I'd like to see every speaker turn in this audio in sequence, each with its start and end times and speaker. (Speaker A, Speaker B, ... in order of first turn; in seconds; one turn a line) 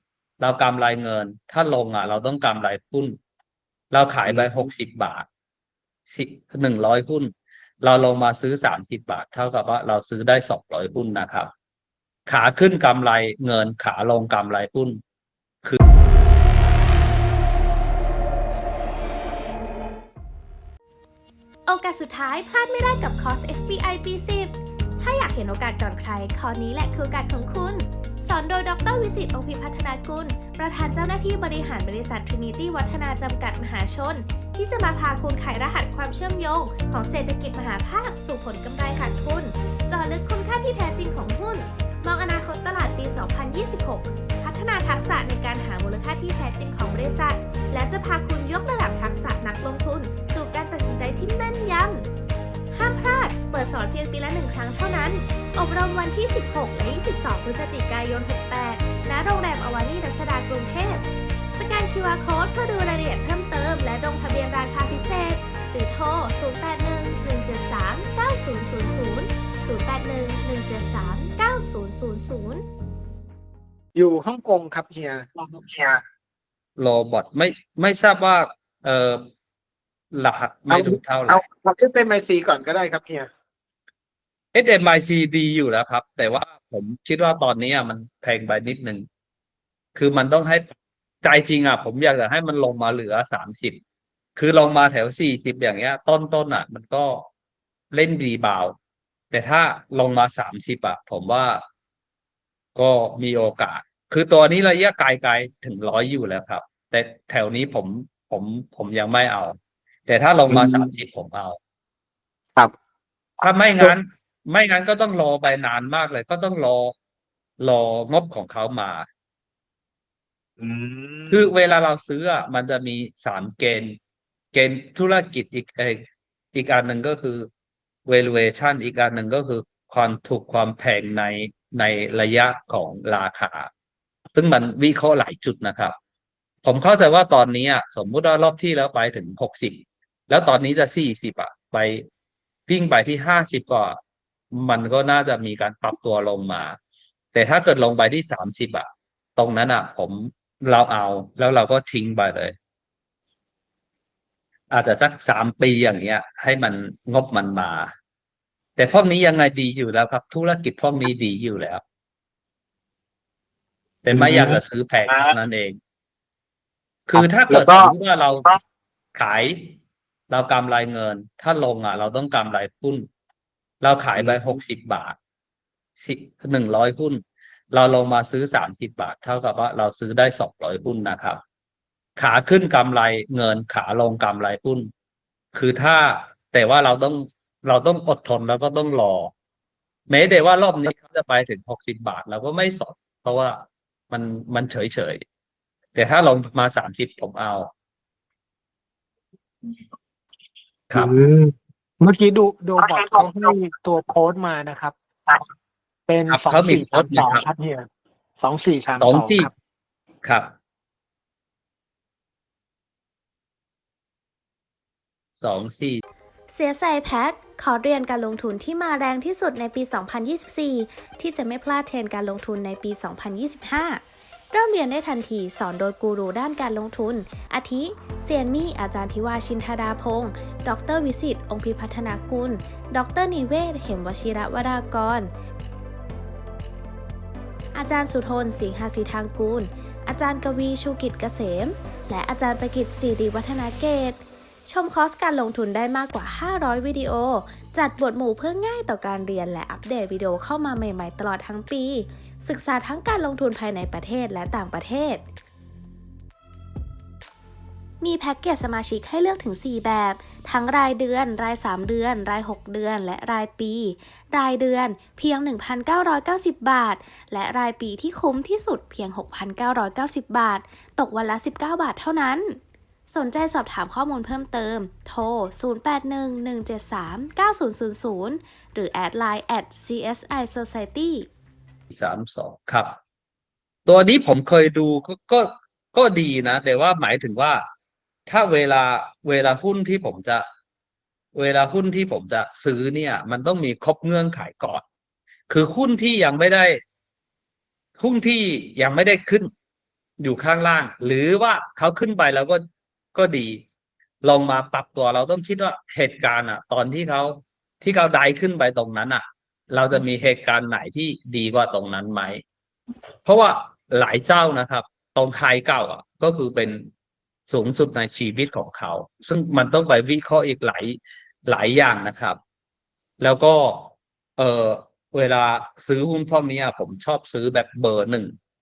Speaker A: 0.4-3.2
Speaker A: 3.9-5.2
Speaker B: 4.2-4.5
Speaker A: 6.0-11.5
Speaker A: 12.2-15.0
Speaker C: 21.7-52.1
Speaker C: 52.7-72.6
Speaker B: 73.9-76.0
Speaker A: 76.8-79.3
Speaker A: 80.1-81.4
Speaker B: 80.7-83.3
Speaker A: 84.5-89.0
Speaker A: 89.9-93.8
Speaker A: 94.3-97.3
Speaker A: 97.9-98.8
Speaker A: 99.3-101.6
Speaker A: 102.7-111.6
Speaker B: 110.5-110.9
Speaker A: 113.4-116.9
Speaker A: 117.6-119.0
Speaker B: 120.6-121.4
Speaker A: 121.3-124.0
Speaker A: 124.5-126.0
Speaker A: 126.5-127.5
Speaker A: 128.1-133.7
Speaker A: 134.3-135.9
Speaker A: 136.6-142.1
Speaker A: 142.7-144.0
Speaker A: 144.5-146.8
Speaker A: 147.3-152.6
Speaker A: 154.7-157.9
Speaker A: 158.8-161.8
Speaker A: 164.0-165.8
Speaker B: 164.1-164.6
Speaker A: 167.1-168.4
Speaker B: 167.1-167.9
Speaker A: 169.1-169.8
Speaker A: 170.3-173.1
Speaker A: 173.8-175.2
Speaker A: 176.0-181.4
Speaker A: 182.2-184.9
Speaker A: 185.5-189.3
Speaker A: 190.1-195.2
Speaker A: 195.9-197.7
Speaker A: 200.9-201.1
Speaker B: 200.9-205.4
Speaker B: 206.1-207.9
Speaker A: 206.3-207.4
Speaker B: 208.4-209.5
Speaker A: 209.0-209.5
Speaker A: 210.2-210.5
Speaker A: 215.4-216.0
Speaker C: 216.5-224.0
Speaker C: 224.5-235.3
Speaker C: 237.7-255.2
Speaker C: 258.0-281.3
Speaker A: 281.9-282.9
Speaker A: 283.9-287.6
Speaker A: 288.3-290.4
Speaker A: 291.3-294.8
Speaker A: 295.5-296.8
Speaker A: 298.0-299.5
Speaker A: 300.2-303.6
Speaker A: 304.2-312.4
Speaker A: 313.2-316.9
Speaker A: 317.5-322.4
Speaker A: 323.2-328.3